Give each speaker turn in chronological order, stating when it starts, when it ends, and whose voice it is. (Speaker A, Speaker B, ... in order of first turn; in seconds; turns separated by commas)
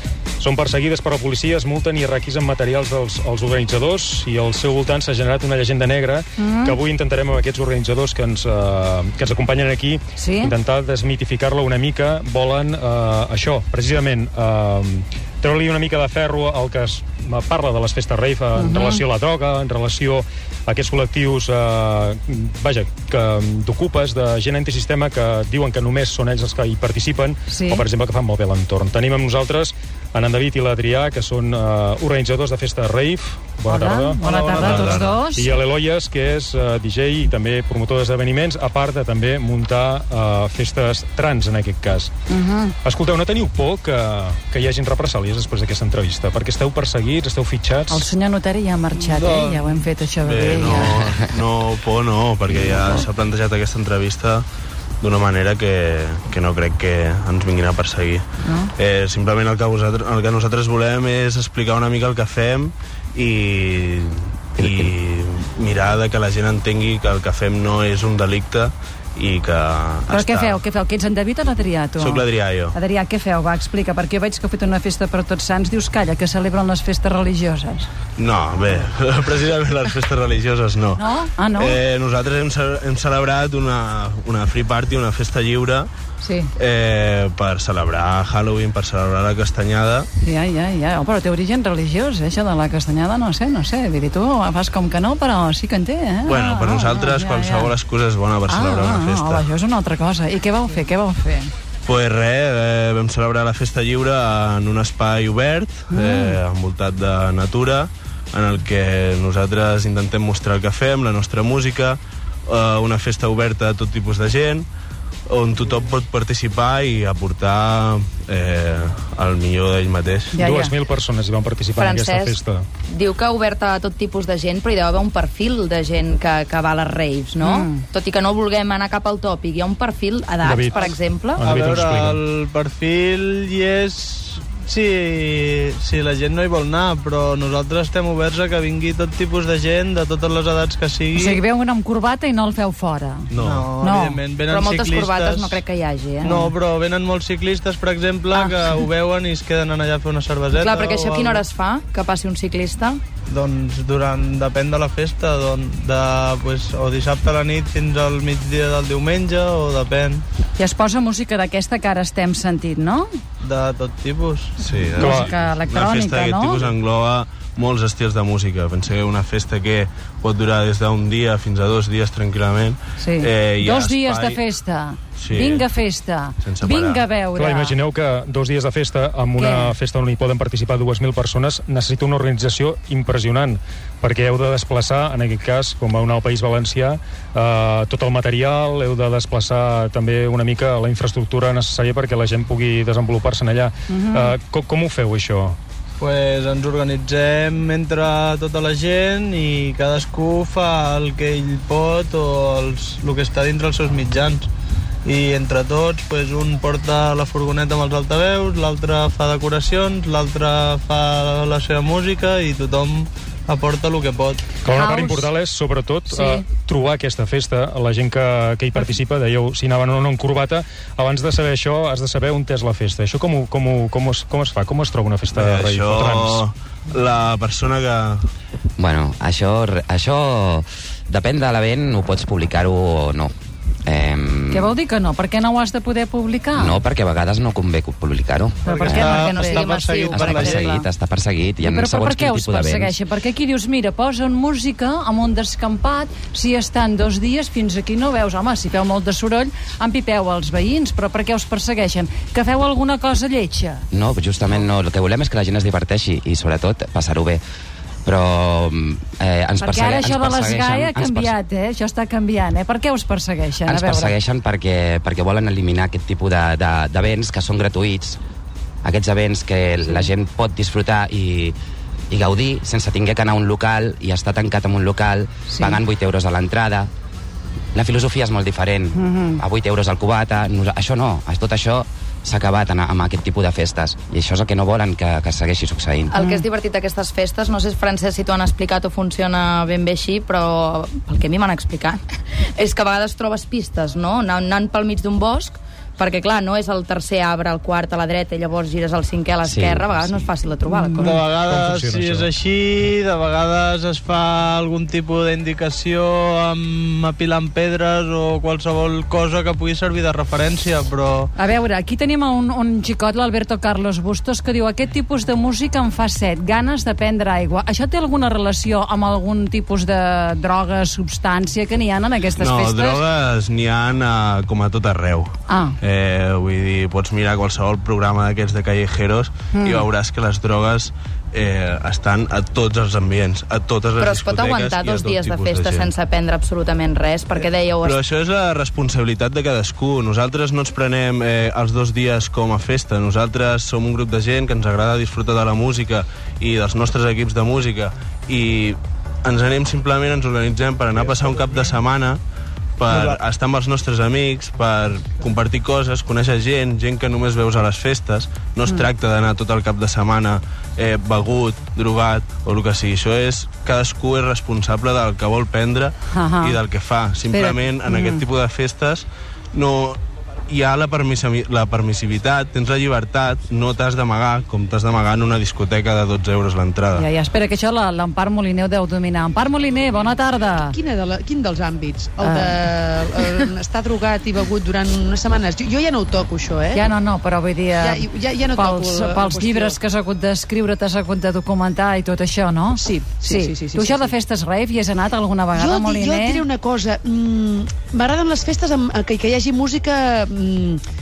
Speaker A: 0.4-42.1, Speaker B: 6.4-6.8, Speaker B: 10.2-10.5, Speaker B: 18.6-19.0, Speaker B: 27.5-27.8, Speaker B: 33.7-35.5, Speaker C: 34.2-35.1, Speaker B: 42.3-42.7, Speaker A: 42.8-48.0, Speaker B: 47.9-51.0, Speaker C: 49.0-49.8, Speaker D: 50.2-54.5, Speaker D: 55.0-70.6, Speaker B: 58.4-58.7, Speaker E: 64.6-64.9, Speaker B: 70.1-77.9, Speaker D: 72.0-72.8, Speaker D: 78.2-85.9, Speaker B: 81.0-81.8, Speaker B: 86.2-86.5, Speaker D: 86.6-90.1, Speaker B: 90.2-97.7, Speaker D: 96.2-99.5, Speaker B: 98.5-101.5, Speaker D: 101.8-114.7, Speaker B: 105.9-106.4, Speaker D: 115.3-120.4, Speaker B: 120.3-120.8, Speaker A: 120.4-122.7, Speaker F: 121.8-122.4, Speaker F: 122.9-131.5, Speaker B: 127.4-127.8, Speaker A: 130.4-132.2, Speaker C: 131.4-141.4, Speaker B: 141.2-144.2, Speaker D: 143.3-143.7, Speaker C: 143.3-145.6, Speaker F: 144.5-146.4, Speaker C: 146.2-151.4, Speaker F: 150.6-153.0, Speaker C: 153.2-160.2, Speaker B: 160.6-163.1, Speaker C: 163.4-165.3, Speaker D: 164.6-165.0, Speaker B: 165.0-166.7, Speaker A: 165.0-165.3, Speaker D: 165.6-174.4, Speaker B: 173.0-177.8, Speaker D: 175.2-175.7, Speaker D: 176.4-177.0, Speaker A: 177.4-195.6, Speaker B: 179.4-179.8, Speaker B: 193.9-194.3, Speaker C: 196.0-204.5, Speaker C: 205.1-214.5, Speaker A: 214.6-226.4, Speaker B: 214.7-215.3, Speaker B: 216.1-216.4, Speaker D: 225.3-228.2, Speaker E: 228.8-233.3, Speaker E: 233.8-234.8, Speaker B: 234.5-236.8, Speaker E: 236.5-239.3, Speaker B: 238.7-240.8, Speaker C: 238.7-240.7, Speaker F: 239.5-240.6, Speaker E: 240.0-242.9, Speaker B: 241.6-253.8, Speaker E: 253.9-257.4, Speaker E: 258.0-261.3, Speaker B: 259.6-264.1, Speaker E: 263.6-268.2, Speaker E: 268.8-271.6, Speaker E: 272.1-276.9, Speaker B: 275.5-275.8, Speaker E: 277.7-286.1, Speaker B: 278.9-279.4, Speaker B: 286.1-286.4, Speaker F: 286.1-292.0, Speaker F: 292.6-301.2, Speaker E: 299.4-300.3, Speaker B: 300.8-301.1, Speaker C: 301.0-311.3, Speaker A: 301.5-302.3, Speaker B: 311.4-323.0, Speaker D: 322.4-335.9, Speaker B: 325.5-325.8, Speaker B: 329.5-329.9, Speaker F: 334.0-338.0, Speaker D: 337.8-352.2, Speaker C: 350.9-351.7, Speaker D: 352.8-377.1, Speaker B: 366.1-366.6, Speaker B: 367.3-368.2, Speaker B: 376.9-380.8, Speaker G: 380.7-386.9, Speaker B: 382.2-382.5, Speaker B: 386.7-396.4, Speaker G: 387.8-389.8, Speaker G: 392.8-394.1, Speaker G: 395.5-400.8